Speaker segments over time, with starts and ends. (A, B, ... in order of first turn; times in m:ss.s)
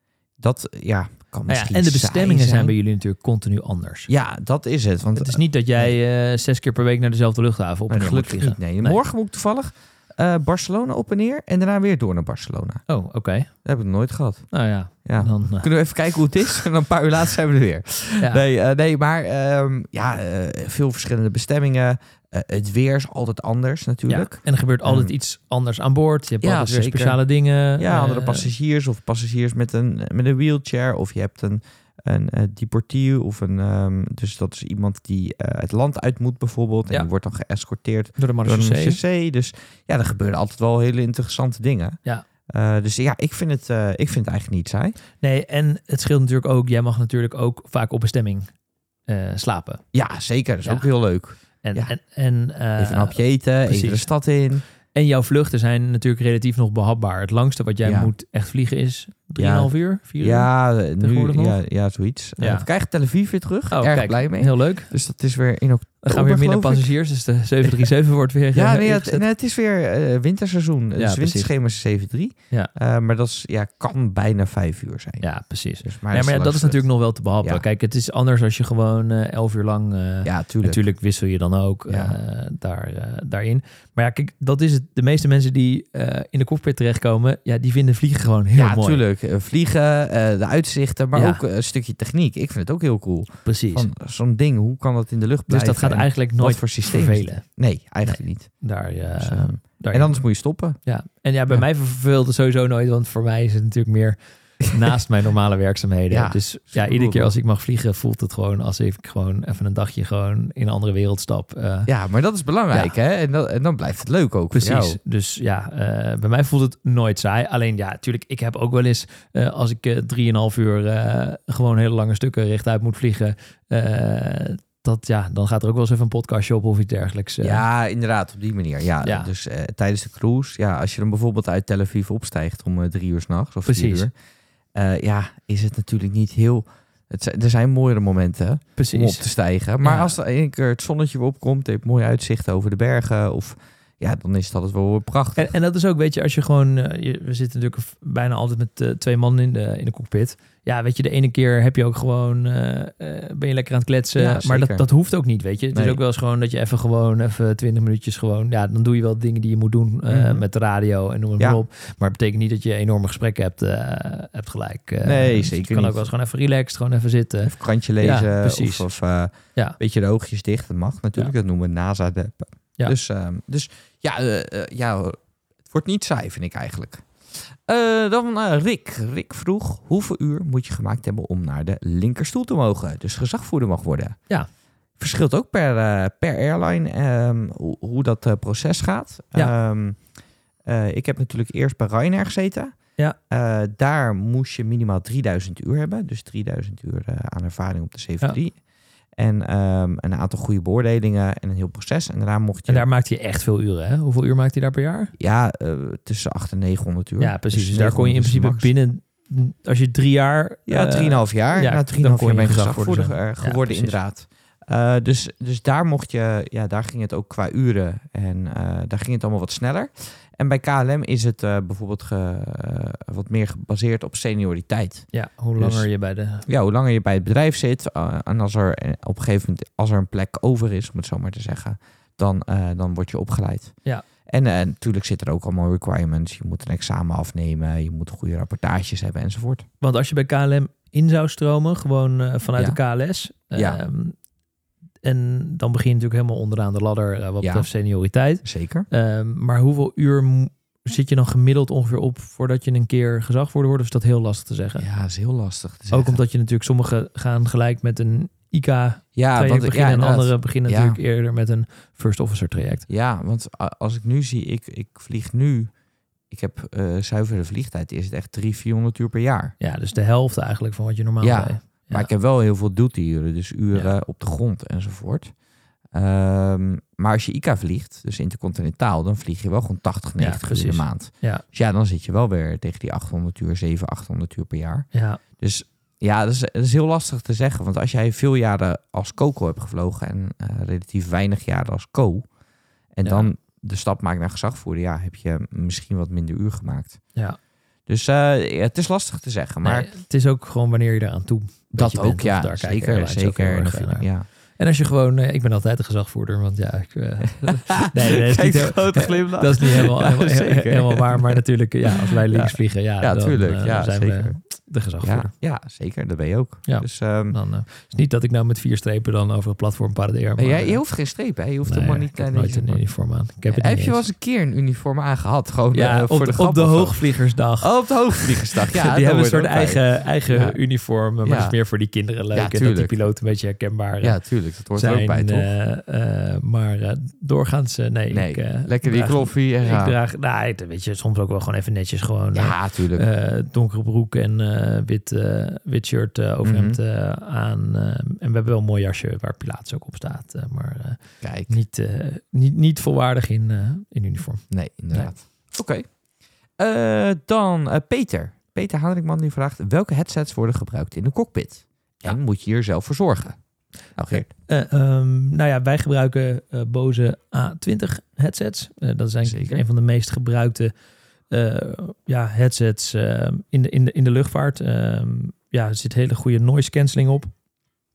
0:00.4-0:02.8 A
0:01.5-0:04.1 B
0:04.1-0:05.9 A
0:05.2-0:09.0 B
0:07.9-0:12.8 A
0:12.9-0:13.5 B
0:13.6-0:14.5 A
0:14.5-0:15.7 B
0:15.0-0:25.1 A
0:24.1-0:28.5 B
0:26.4-0:27.2 A
0:27.8-0:45.0 A
0:38.2-0:39.0 B
0:45.2-0:48.5 B
0:49.1-0:49.8 B
0:49.9-0:51.9 A
0:51.6-0:54.1 B
0:52.8-0:54.6 A
0:54.9-1:01.6 B
0:57.8-0:58.1 A
0:59.4-1:06.9 A
1:02.4-1:02.7 B
1:03.7-1:04.9 B
1:06.0-1:09.2 B
1:07.6-1:07.9 A
1:08.5-1:15.3 A
1:11.0-1:11.5 B
1:15.2-1:29.0 B
1:15.8-1:16.8 A
1:20.2-1:20.8 A
1:21.9-1:22.2 A
1:28.6-1:38.6 A
1:31.1-1:31.4 B
1:33.4-1:33.9 B
1:35.5-1:37.4 B
1:38.0-1:40.2 B
1:39.2-1:40.8 A
1:40.8-1:51.9 B
1:46.1-1:47.4 A
1:51.9-1:55.0 A
1:54.5-2:07.6 B
2:07.4-2:14.1 A
2:09.0-2:09.3 B
2:13.7-2:14.1 B
2:14.7-2:25.5 A
2:18.8-2:19.3 B
2:19.8-2:20.1 B
2:25.4-2:48.9 B
2:34.2-2:34.8 A
2:35.7-2:36.0 A
2:40.1-2:40.4 A
2:45.0-2:46.1 A
2:47.4-2:57.0 A
2:57.7-3:04.2 A
3:05.0-3:10.0 A
3:10.7-3:12.8 A
3:13.3-3:18.6 A
3:19.2-3:22.9 A
3:22.7-3:25.1 B
3:25.2-3:28.7 A
3:27.2-3:34.0 B
3:30.7-3:45.1 A
3:45.1-3:46.5 B
3:45.6-3:45.9 A
3:46.5-3:53.8 A
3:54.3-3:59.7 A
3:59.8-4:04.2 B
4:03.5-4:03.8 A
4:05.0-4:14.9 B
4:07.4-4:07.7 A
4:08.4-4:08.9 A
4:14.8-4:16.2 A
4:15.9-4:22.9 B
4:19.2-4:21.0 A
4:22.9-4:25.7 A
4:26.3-4:29.5 A
4:29.6-4:32.1 B
4:31.2-4:35.3 A
4:35.9-4:44.9 A
4:40.2-4:41.4 B
4:44.9-4:45.2 B
4:45.4-4:52.3 A
4:53.0-4:57.0 A
4:53.0-4:53.3 B
4:57.9-4:59.9 A
4:59.6-5:15.3 B
5:01.7-5:04.2 A
5:07.4-5:11.4 A
5:11.9-5:14.4 A
5:15.0-5:17.4 A
5:16.7-5:20.8 B
5:20.4-5:22.8 A
5:21.6-5:24.0 B
5:23.5-5:27.0 A
5:25.7-5:34.2 B
5:27.6-5:30.6 A
5:31.2-5:31.6 A
5:32.3-5:33.0 A
5:34.0-5:35.5 A
5:34.7-5:55.1 B
5:38.1-5:40.0 A
5:42.3-5:43.1 A
5:46.4-5:46.8 A
5:51.2-5:51.5 A
5:54.5-5:55.9 A
5:56.6-6:03.4 A
6:04.0-6:04.3 A
6:04.1-6:10.7 B
6:09.2-6:09.6 A
6:11.3-6:17.3 B